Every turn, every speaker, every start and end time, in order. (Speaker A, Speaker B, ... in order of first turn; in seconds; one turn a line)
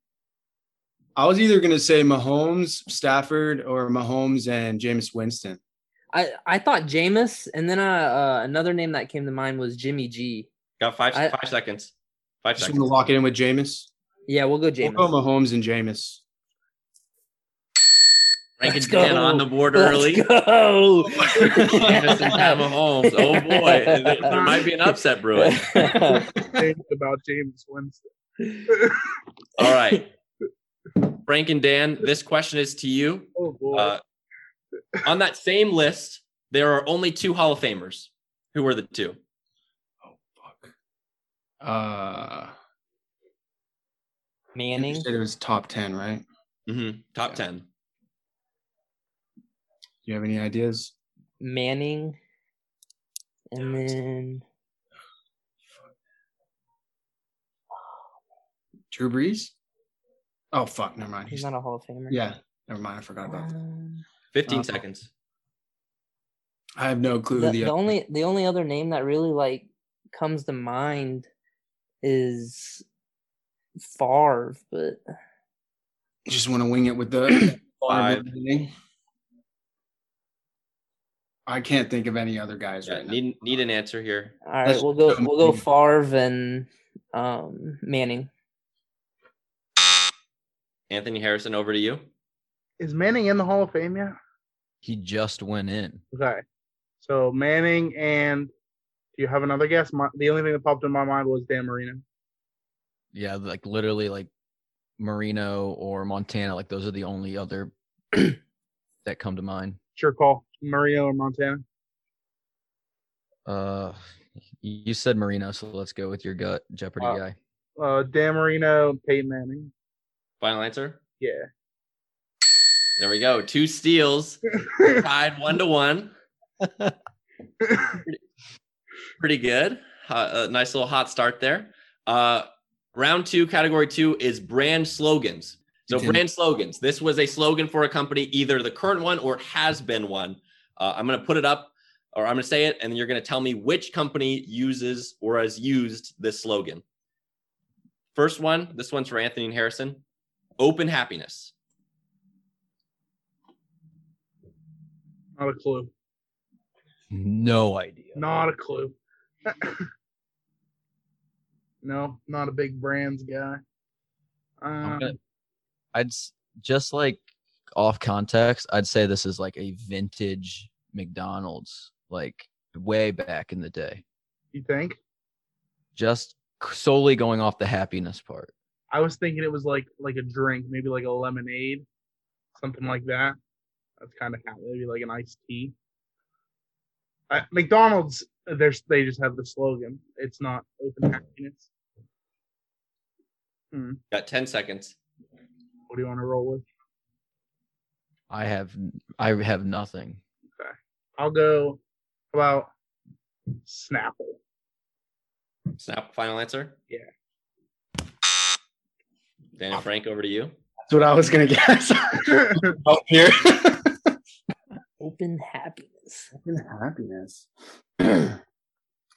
Speaker A: 1.1-5.6
Speaker B: 6.1-10.5
Speaker C: 10.8-13.1
Speaker A: 12.6-13.9
Speaker B: 14.3-15.1
Speaker A: 14.8-16.2
Speaker C: 18.6-20.3
Speaker B: 18.6-22.6
Speaker A: 21.2-22.3
Speaker C: 21.6-25.7
Speaker B: 23.1-24.6
Speaker D: 24.2-24.6
Speaker B: 25.3-26.3
Speaker A: 26.1-26.6
Speaker D: 26.5-28.0
Speaker B: 28.4-28.7
Speaker D: 28.7-29.1
Speaker C: 29.6-30.1
Speaker C: 31.1-34.0
Speaker D: 33.4-33.9
Speaker C: 35.0-39.2
Speaker A: 40.0-40.7
Speaker A: 41.6-42.5
Speaker B: 44.5-45.1
Speaker A: 44.8-46.2
Speaker C: 46.7-47.6
Speaker A: 50.0-50.9
Speaker B: 51.4-52.2
Speaker B: 53.5-54.4
Speaker A: 58.9-59.5
Speaker A: 60.5-61.5
Speaker B: 61.3-62.2
Speaker A: 62.1-63.5
Speaker B: 63.3-64.0
Speaker C: 64.3-65.1
Speaker A: 64.5-64.7
Speaker A: 66.8-67.8
Speaker B: 67.3-71.3
Speaker B: 72.0-72.8
Speaker B: 73.8-75.0
Speaker A: 76.3-78.7
Speaker C: 77.9-78.3
Speaker A: 81.5-83.2
Speaker C: 82.8-84.3
Speaker B: 84.4-88.3
Speaker A: 84.6-85.6
Speaker C: 90.9-92.0
Speaker D: 92.8-94.2
Speaker E: 94.8-96.0
Speaker D: 96.1-96.4
Speaker D: 97.0-98.5
Speaker D: 99.2-102.0
Speaker E: 103.1-104.3
Speaker E: 105.0-108.4
Speaker E: 109.0-109.8
Speaker D: 110.0-111.6
Speaker E: 113.5-114.0
Speaker E: 114.6-117.3
Speaker D: 117.8-119.7
Speaker C: 120.4-121.0
Speaker D: 121.2-121.5
Speaker C: 123.0-126.1
Speaker D: 124.7-125.0
Speaker D: 127.6-128.0
Speaker C: 129.2-146.8
Speaker A: 135.9-136.2
Speaker C: 148.1-150.0
Speaker C: 150.6-151.5
Speaker D: 155.4-155.9
Speaker E: 157.1-158.2
Speaker D: 158.2-158.9
Speaker D: 159.4-159.8
Speaker D: 161.8-163.6
Speaker D: 164.6-165.2
Speaker E: 164.8-165.1
Speaker E: 165.9-174.0
Speaker D: 174.5-175.0
Speaker E: 175.9-178.5
Speaker D: 178.9-181.8
Speaker D: 182.5-183.3
Speaker D: 184.0-185.7
Speaker D: 187.3-191.7
Speaker D: 193.7-194.0
Speaker C: 194.1-194.9
Speaker D: 195.9-196.6
Speaker E: 198.3-200.2
Speaker D: 200.6-201.8
Speaker D: 202.3-202.7
Speaker D: 203.7-204.4
Speaker C: 205.8-206.8
Speaker C: 209.6-210.5
Speaker A: 210.9-214.1
Speaker D: 212.4-212.7
Speaker B: 215.0-216.3
Speaker A: 216.3-217.5
Speaker A: 218.0-218.4